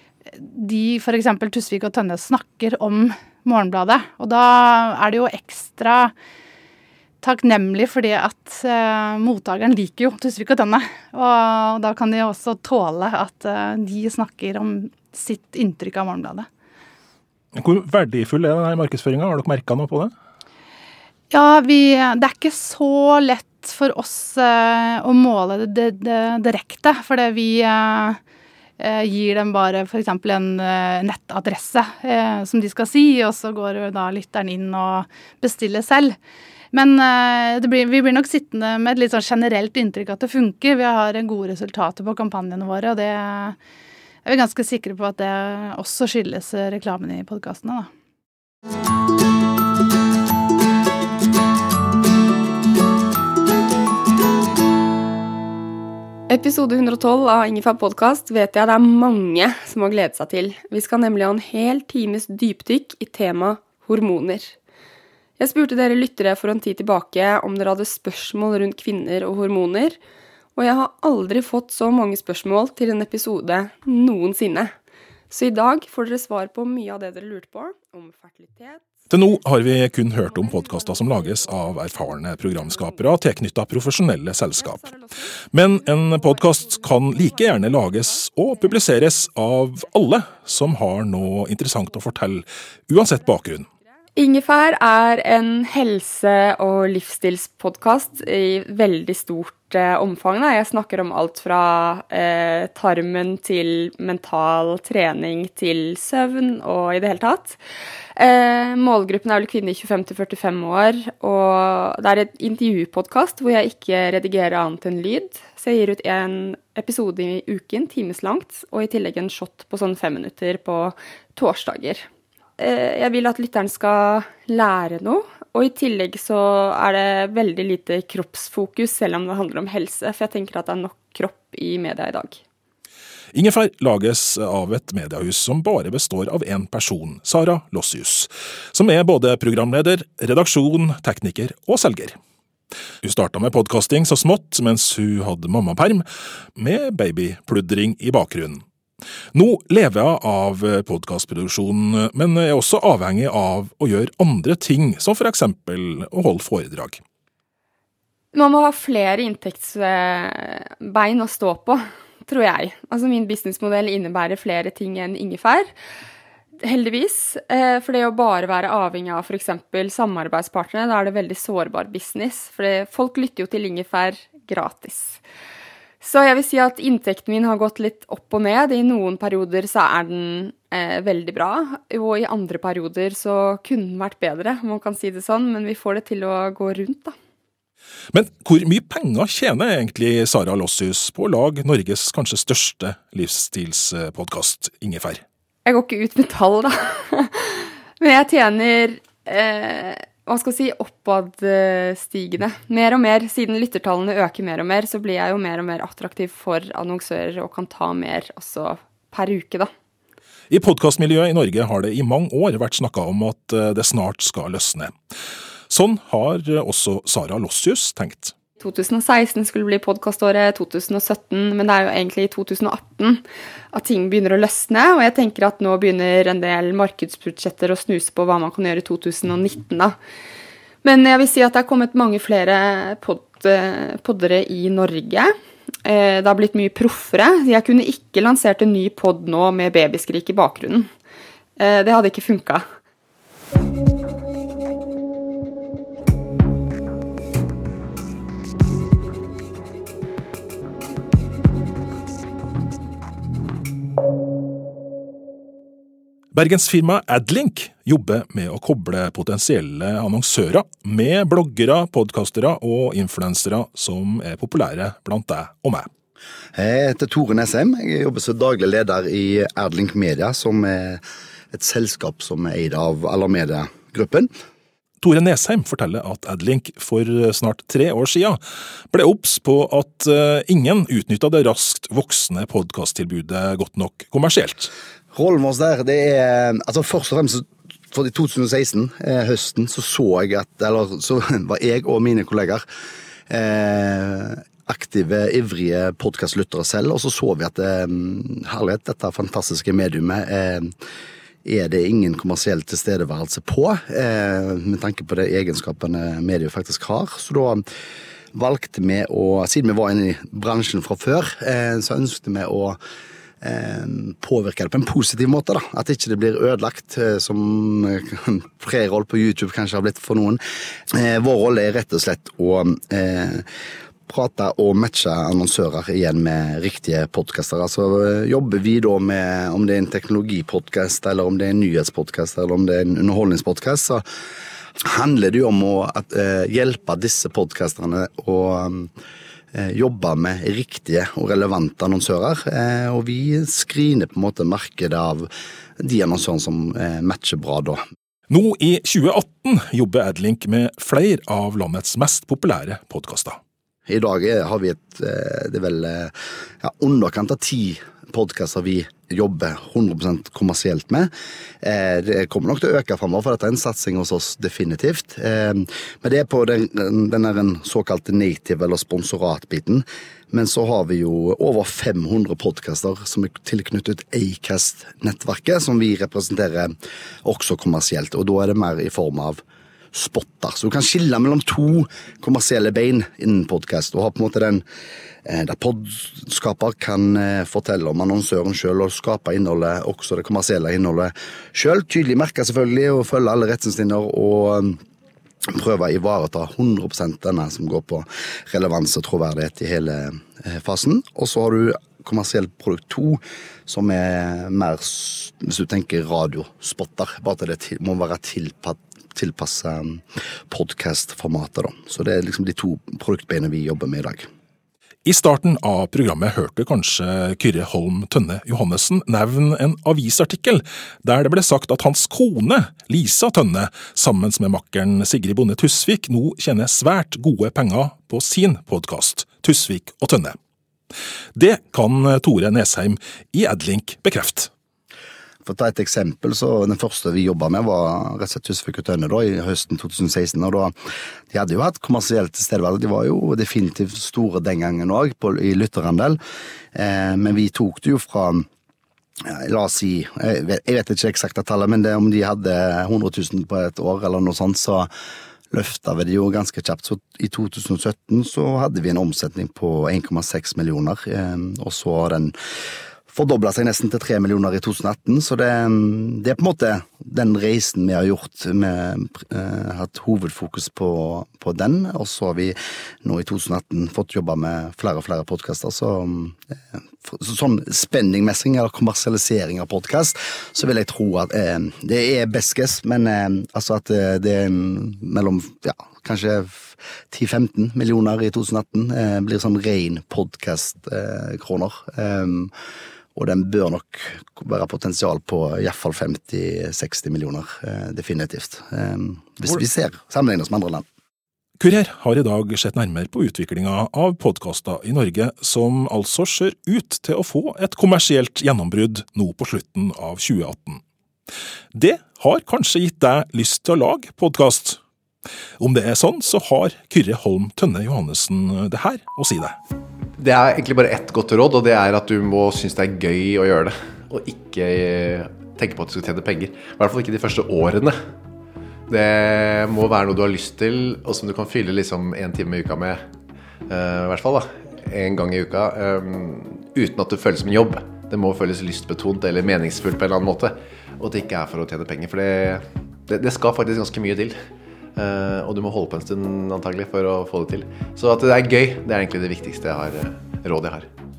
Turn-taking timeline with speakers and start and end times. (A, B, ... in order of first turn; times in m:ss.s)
0:00.3-0:06.1 A
0:07.2-0:16.5 A
0:17.5-0:20.1 B
0:21.3-0:28.2 A
0:28.8-0:36.2 A
0:36.7-0:43.6 A
0:44.2-0:47.9 A
0:56.3-1:04.6 C
1:05.4-1:10.0 C
1:10.5-1:14.7 C
1:15.3-1:18.9 C
1:19.1-1:24.9 B
1:24.7-1:25.3 C
1:25.5-1:33.7 B
1:34.1-1:47.6 C
1:48.2-2:12.4 C
2:13.3-2:22.2 B
2:23.0-2:28.6 B
2:29.3-2:37.0 B
2:38.3-2:45.7 C
2:46.6-2:55.2 C
2:56.0-3:07.2 C
3:08.1-3:15.2 B
3:15.6-3:29.7 C
3:30.5-3:34.9 B
3:35.7-3:38.3 B
3:38.6-3:50.0 C
3:50.8-3:55.3 C
3:55.8-4:00.9 C
4:01.6-4:02.7 C
4:16.3-4:25.9 B
4:26.5-4:34.3 D
4:35.0-4:38.4 B
4:38.9-4:44.7 B
4:45.1-4:52.6 D
4:53.3-5:00.7 D
5:01.4-5:07.6 D
5:08.3-5:12.8 D
5:13.4-5:20.4 D
5:20.9-5:23.5 D
5:24.1-5:34.0 D
5:34.8-5:38.9 D
5:39.5-5:47.8 D
5:48.3-5:53.4 B
5:53.9-6:19.4 D
6:19.9-6:24.6 D
6:25.2-6:34.8 D
6:35.5-6:54.3 D
6:55.0-7:10.4 B
7:11.3-7:14.5 B
7:15.4-7:20.7 D
7:21.3-7:26.2 D
7:26.7-7:28.5 D
7:29.2-7:34.9 D
7:35.5-7:42.4 D
7:43.1-8:12.5 D
8:13.1-8:20.8 D
8:21.6-8:30.8 B
8:31.7-8:34.8 B
8:35.6-8:39.6 B
8:40.2-8:48.0 E
8:48.9-8:53.0 E
8:53.7-9:04.4 E
9:05.0-9:10.9 E